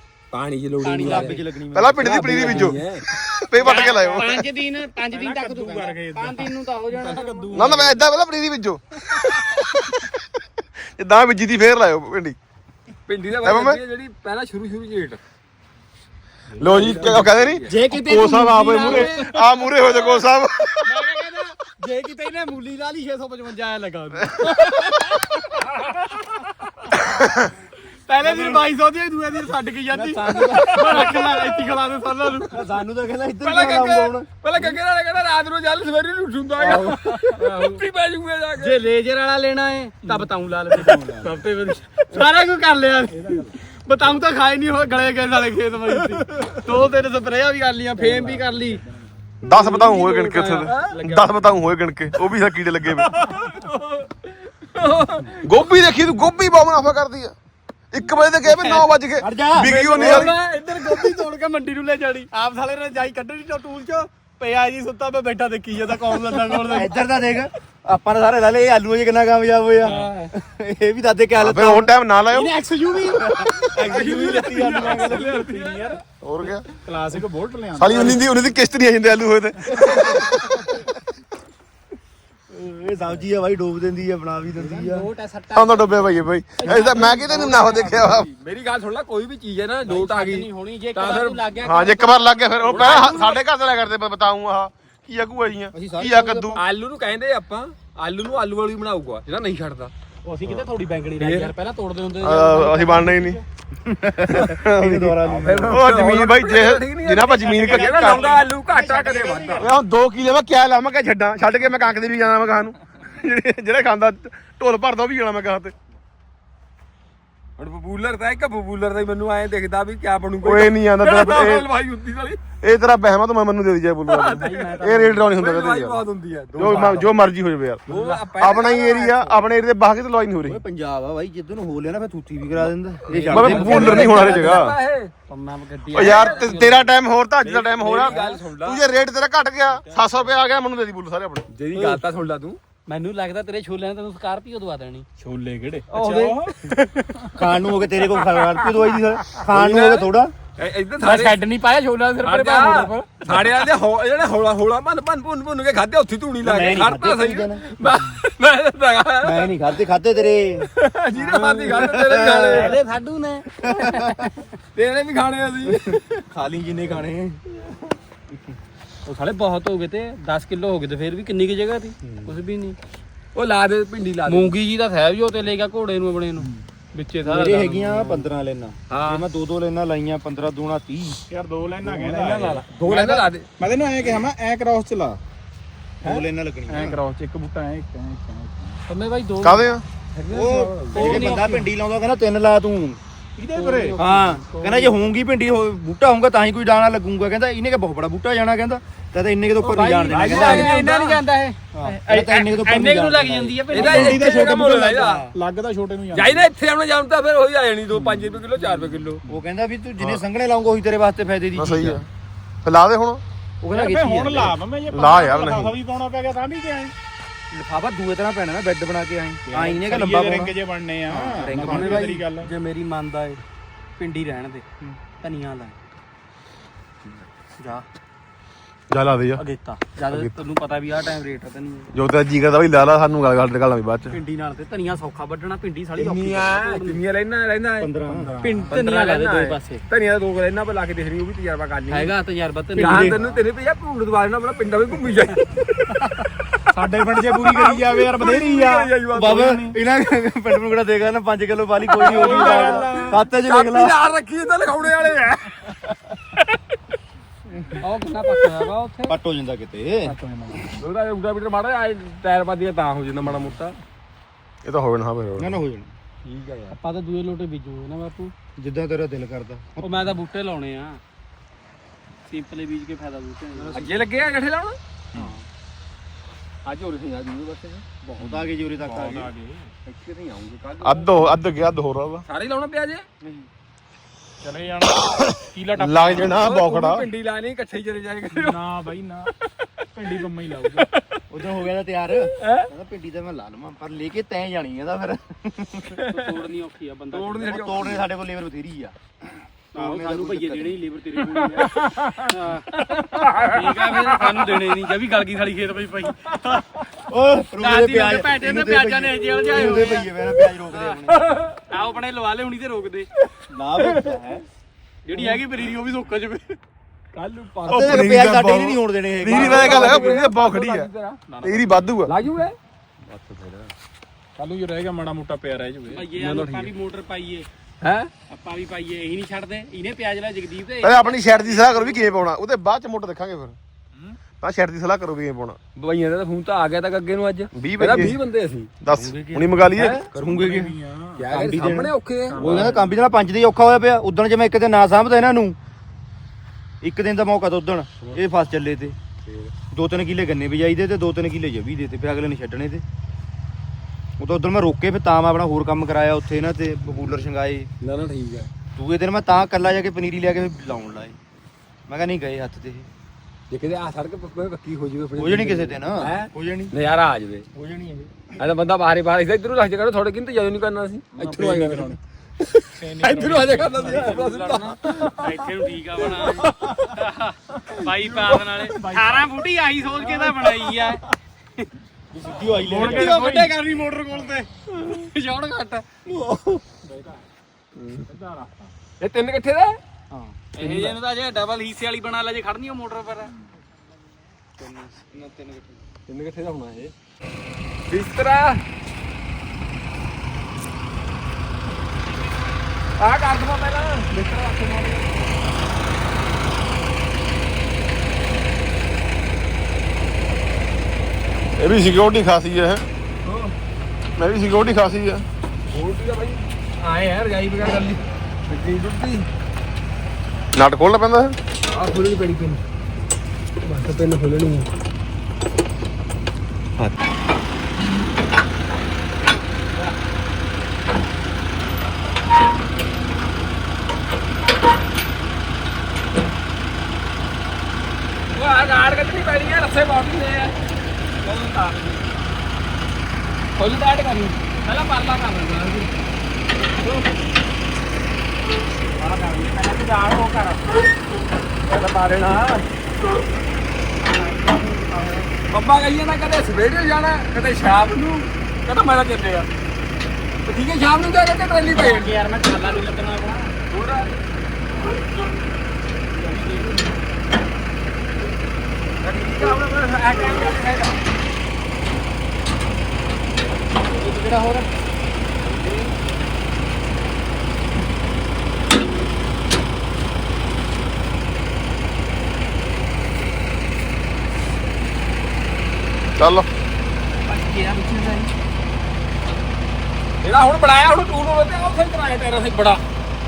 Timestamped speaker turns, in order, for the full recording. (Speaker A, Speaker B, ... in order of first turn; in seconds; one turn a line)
Speaker A: 0.3-1.4
Speaker B: 0.8-1.4
Speaker C: 1.0-2.7
Speaker D: 1.7-4.4
Speaker A: 2.0-3.0
Speaker B: 3.6-7.8
Speaker E: 3.6-4.3
Speaker E: 5.1-8.0
Speaker D: 7.5-10.2
Speaker E: 9.0-9.6
Speaker D: 11.0-12.4
Speaker A: 13.1-15.2
Speaker D: 13.4-13.8
Speaker E: 16.5-17.2
Speaker D: 16.6-20.9
Speaker A: 16.6-17.8
Speaker B: 17.6-19.4
Speaker E: 18.9-19.3
Speaker B: 20.8-25.4
Speaker D: 27.0-27.5
Speaker B: 28.1-32.6
Speaker E: 28.2-28.6
Speaker C: 28.2-28.6
Speaker C: 29.9-31.0
Speaker E: 30.8-31.7
Speaker C: 32.5-34.8
Speaker A: 33.4-38.8
Speaker B: 36.6-37.8
Speaker B: 38.6-48.8
Speaker E: 40.1-41.0
Speaker C: 40.9-41.3
Speaker E: 43.1-43.5
Speaker A: 48.0-48.4
Speaker D: 49.4-53.1
Speaker A: 49.5-51.1
Speaker B: 50.9-51.3
Speaker E: 53.0-53.6
Speaker A: 53.5-55.4
Speaker D: 55.4-57.3
Speaker D: 57.9-60.3
Speaker B: 58.4-58.9
Speaker C: 59.2-59.7
Speaker A: 59.7-61.2
Speaker B: 59.7-66.9
Speaker C: 66.3-71.9
Speaker B: 69.8-70.3
Speaker D: 71.4-72.5
Speaker B: 72.3-73.6
Speaker C: 73.0-75.4
Speaker A: 73.8-76.0
Speaker E: 74.6-76.0
Speaker D: 76.2-76.7
Speaker E: 76.7-78.2
Speaker D: 77.8-80.9
Speaker E: 79.6-79.9
Speaker C: 80.2-80.8
Speaker C: 82.5-85.1
Speaker B: 84.6-88.2
Speaker D: 85.5-88.3
Speaker A: 87.9-91.6
Speaker B: 89.8-93.3
Speaker D: 91.6-96.6
Speaker A: 92.6-93.4
Speaker C: 95.7-96.6
Speaker A: 96.5-99.9
Speaker B: 100.2-103.4
Speaker A: 101.2-101.5
Speaker D: 102.2-103.4
Speaker C: 103.8-105.9
Speaker D: 104.2-108.4
Speaker A: 105.3-109.7
Speaker E: 107.5-109.0
Speaker B: 108.6-109.7
Speaker D: 109.4-115.7
Speaker A: 117.6-122.4
Speaker D: 120.4-121.7
Speaker D: 122.6-126.0
Speaker A: 124.1-127.1
Speaker B: 124.3-125.3
Speaker D: 126.6-130.6
Speaker B: 126.7-126.9
Speaker A: 127.9-129.3
Speaker C: 130.4-134.2
Speaker A: 133.1-135.1
Speaker B: 133.2-134.6
Speaker D: 133.3-134.8
Speaker B: 135.3-136.9
Speaker D: 135.9-141.4
Speaker A: 135.9-136.5
Speaker A: 137.4-138.8
Speaker A: 141.5-142.6
Speaker B: 142.9-145.1
Speaker E: 145.2-147.3
Speaker A: 145.9-146.5
Speaker B: 145.9-146.2
Speaker C: 147.3-150.3
Speaker A: 148.3-148.8
Speaker A: 149.5-151.4
Speaker B: 151.0-153.4
Speaker A: 152.2-159.5
Speaker C: 156.4-157.6
Speaker C: 159.2-160.7
Speaker A: 160.8-162.8
Speaker B: 161.2-161.8
Speaker C: 161.3-162.8
Speaker B: 162.5-164.0
Speaker C: 163.6-164.3
Speaker A: 163.8-164.2
Speaker A: 164.7-166.2
Speaker C: 165.7-167.4
Speaker B: 169.0-172.8
Speaker A: 172.0-172.3
Speaker A: 173.3-174.5
Speaker B: 174.2-178.3
Speaker C: 177.2-181.2
Speaker A: 178.9-179.2
Speaker E: 181.3-185.2
Speaker A: 181.8-183.5
Speaker C: 186.0-187.0
Speaker E: 186.7-188.8
Speaker B: 188.9-189.8
Speaker D: 189.4-189.8
Speaker A: 190.1-191.2
Speaker C: 190.3-193.0
Speaker B: 190.9-191.7
Speaker E: 193.4-194.0
Speaker B: 193.5-194.9
Speaker C: 194.0-200.6
Speaker A: 199.7-201.2
Speaker B: 199.8-204.5
Speaker E: 200.1-200.8
Speaker C: 201.7-203.8
Speaker A: 203.7-205.3
Speaker D: 203.8-204.1
Speaker E: 203.8-206.4
Speaker A: 206.1-209.2
Speaker C: 209.3-212.0
Speaker D: 211.5-212.1
Speaker D: 212.6-213.2
Speaker C: 213.6-214.6
Speaker E: 213.7-216.9
Speaker D: 214.9-215.8
Speaker C: 217.5-220.6
Speaker E: 219.5-222.5
Speaker C: 221.1-222.0
Speaker B: 221.3-223.4
Speaker B: 224.0-224.6
Speaker B: 225.2-225.8
Speaker B: 227.6-227.8
Speaker D: 228.9-229.4
Speaker B: 229.3-231.9
Speaker D: 231.9-234.2
Speaker B: 234.1-237.0
Speaker A: 236.0-237.9
Speaker C: 237.8-238.4
Speaker E: 238.1-238.8
Speaker B: 238.4-239.8
Speaker A: 238.7-242.2
Speaker B: 241.9-243.2
Speaker A: 242.7-245.9
Speaker E: 246.7-249.8
Speaker A: 247.2-249.6
Speaker C: 249.1-254.0
Speaker A: 251.9-255.6
Speaker E: 251.9-253.2
Speaker B: 257.8-259.1
Speaker A: 258.1-258.7
Speaker C: 259.1-260.6
Speaker E: 260.1-260.7
Speaker A: 260.8-263.8
Speaker D: 264.6-265.6
Speaker C: 265.4-265.9
Speaker A: 266.2-266.8
Speaker B: 266.7-268.3
Speaker C: 268.6-269.9
Speaker B: 269.8-271.0
Speaker B: 272.2-273.9
Speaker A: 273.7-274.8
Speaker B: 275.1-275.4
Speaker A: 276.6-277.8
Speaker C: 278.0-279.3
Speaker E: 278.8-279.7
Speaker A: 279.9-281.3
Speaker D: 280.8-282.2
Speaker A: 282.3-283.1
Speaker E: 284.4-286.5
Speaker D: 285.0-287.1
Speaker A: 286.2-288.6
Speaker E: 288.3-289.3
Speaker E: 289.9-290.9
Speaker C: 291.3-296.0
Speaker A: 292.4-292.7
Speaker B: 296.1-297.6
Speaker A: 297.1-298.1
Speaker C: 297.4-298.9
Speaker C: 299.7-300.8
Speaker B: 299.7-306.6
Speaker E: 301.2-304.6
Speaker C: 306.9-311.4
Speaker B: 307.6-310.1
Speaker B: 310.7-311.0
Speaker B: 311.7-313.1
Speaker C: 313.5-314.4
Speaker A: 313.9-314.2
Speaker B: 315.0-316.6
Speaker A: 317.1-318.1
Speaker C: 317.7-319.9
Speaker D: 317.7-320.9
Speaker A: 319.2-321.2
Speaker B: 319.8-320.2
Speaker E: 321.3-321.9
Speaker D: 321.4-322.1
Speaker A: 322.1-323.7
Speaker E: 324.4-326.1
Speaker B: 325.9-327.5
Speaker A: 326.1-326.7
Speaker A: 327.8-328.1
Speaker B: 328.3-332.1
Speaker D: 330.8-333.6
Speaker D: 334.4-335.6
Speaker A: 335.8-338.7
Speaker D: 337.5-338.2
Speaker D: 338.8-340.0
Speaker C: 338.9-340.8
Speaker A: 339.8-340.0
Speaker E: 340.2-341.2
Speaker A: 341.1-342.8
Speaker C: 341.3-345.6
Speaker E: 342.3-342.8
Speaker C: 346.8-348.9
Speaker A: 349.2-349.5
Speaker C: 349.7-352.8
Speaker C: 354.2-357.7
Speaker A: 357.8-358.5
Speaker C: 358.8-361.2
Speaker C: 361.9-362.9
Speaker A: 363.5-367.4
Speaker C: 365.1-366.7
Speaker C: 367.5-368.4
Speaker A: 368.4-375.0
Speaker E: 371.1-372.0
Speaker E: 372.8-375.3
Speaker B: 373.9-381.0
Speaker A: 376.2-376.8
Speaker E: 378.0-379.4
Speaker E: 380.0-381.1
Speaker C: 382.1-383.2
Speaker E: 382.5-384.5
Speaker B: 382.8-384.2
Speaker B: 384.8-385.9
Speaker A: 386.1-386.6
Speaker E: 386.9-387.2
Speaker A: 387.8-388.0
Speaker E: 388.1-388.7
Speaker A: 389.0-389.8
Speaker A: 390.5-391.0
Speaker B: 390.6-393.3
Speaker B: 394.6-395.7
Speaker A: 396.1-396.9
Speaker A: 397.9-398.6
Speaker A: 403.0-405.1
Speaker D: 411.6-412.8
Speaker A: 413.2-413.5
Speaker D: 414.2-415.2
Speaker A: 415.7-419.2
Speaker D: 420.5-421.3
Speaker A: 421.7-422.6
Speaker A: 423.6-424.7
Speaker A: 438.3-440.5
Speaker A: 441.2-442.0
Speaker A: 443.6-445.9
Speaker B: 444.6-445.6
Speaker B: 449.0-450.7
Speaker E: 449.7-450.1
Speaker A: 451.7-452.6
Speaker B: 454.1-454.7
Speaker A: 455.5-459.5
Speaker A: 460.4-462.1
Speaker B: 461.7-463.5
Speaker A: 463.7-464.1
Speaker E: 466.2-466.9
Speaker A: 469.0-470.9
Speaker B: 473.9-474.7
Speaker A: 475.4-475.9
Speaker D: 486.2-486.5
Speaker B: 487.3-488.3
Speaker A: 490.2-492.8